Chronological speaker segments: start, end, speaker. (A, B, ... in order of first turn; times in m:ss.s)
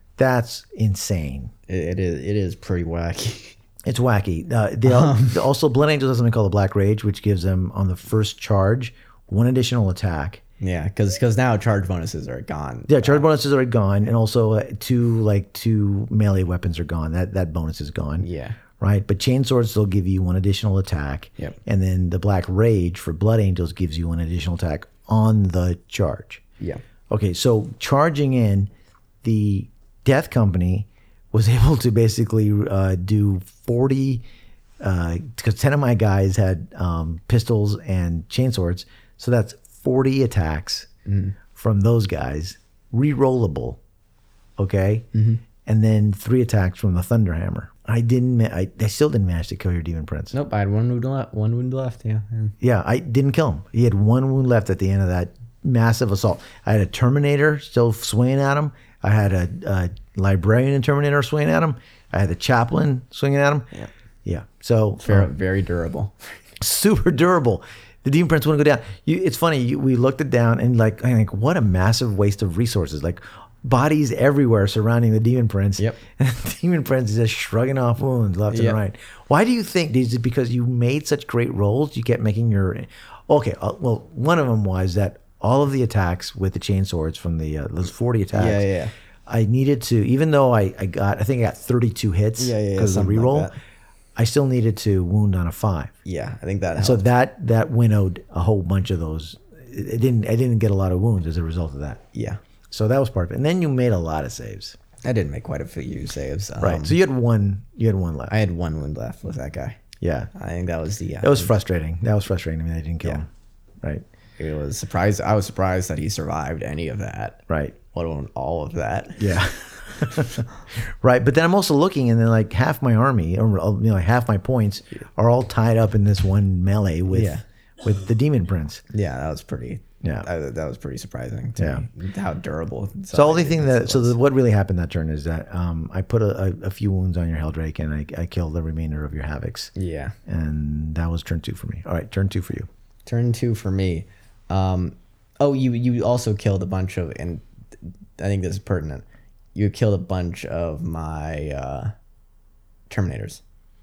0:00.2-0:01.5 A
0:01.7-0:03.6 B
0:03.8-0:10.4 A
0:04.8-0:05.5 B
0:10.6-0:13.3 B
0:12.9-0:18.3 A
0:18.2-0:18.6 B
0:18.8-0:26.4 A
0:27.1-0:28.7 A
0:29.2-0:34.2 A
0:34.8-0:40.9 A
0:41.1-0:41.4 B
0:41.6-0:43.8 A
0:44.6-0:45.1 A
0:45.1-0:45.4 B
0:45.6-0:50.3 A
0:50.3-0:52.5 B
0:52.6-1:03.7 A
1:04.2-1:05.3 A
1:05.0-1:06.5 B
1:06.6-1:28.7 A
1:18.5-1:18.8 B
1:28.3-1:28.9 B
1:29.3-1:33.5 A
1:32.4-1:33.6 B
1:34.2-1:35.9 A
1:36.1-1:37.0 B
1:36.8-1:42.0 A
1:42.1-1:42.4 B
1:42.7-1:44.8 A
1:45.0-1:47.0 B
1:46.6-1:48.4 A
1:48.3-1:49.8 B
1:50.0-1:50.3 A
1:50.4-1:51.5 B
1:51.2-1:53.3 A
1:54.4-1:57.4 B
1:57.5-1:57.8 A
1:57.9-1:59.5 B
1:59.2-2:08.8 A
2:00.0-2:00.4 B
2:07.1-2:07.4 B
2:08.9-2:14.2 B
2:11.6-2:11.9 A
2:13.1-2:19.7 A
2:19.8-2:20.2 B
2:20.3-2:22.7 A
2:23.1-2:31.9 B
2:32.9-2:33.4 B